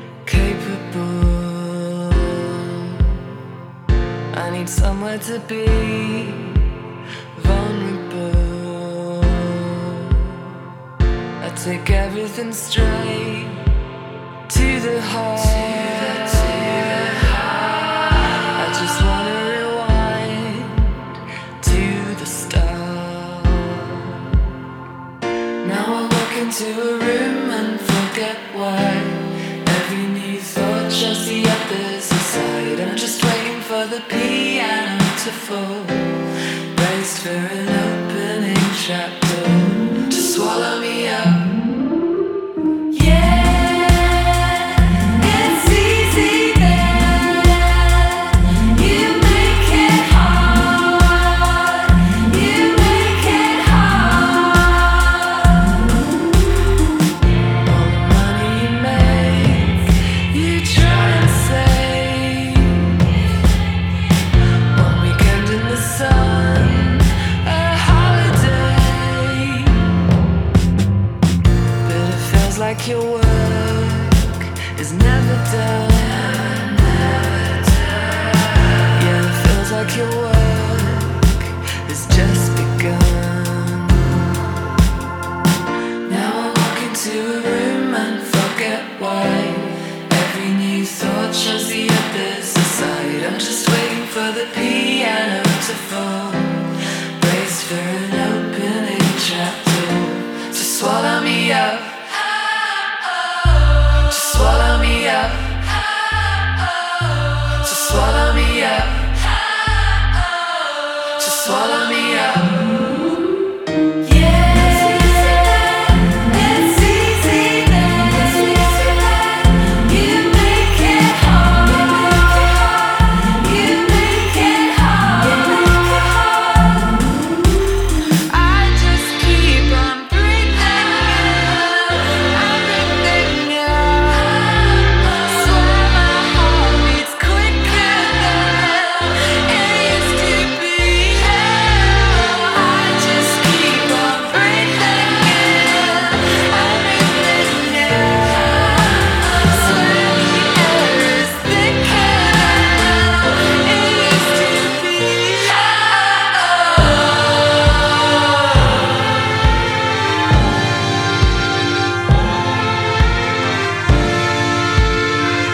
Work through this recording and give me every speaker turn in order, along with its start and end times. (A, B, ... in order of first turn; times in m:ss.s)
0:00.2-0:03.2 A
0:04.3-0:06.8 A
0:07.3-0:10.4 A
0:11.4-0:13.7 A
0:14.5-0:24.4 A
0:25.6-0:41.6 A
0:42.9-0:56.0 A
0:57.6-1:03.1 A
1:04.7-1:10.0 A
1:11.8-1:24.5 A
1:26.0-1:53.2 A
1:54.0-2:07.2 A
2:08.1-2:37.2 A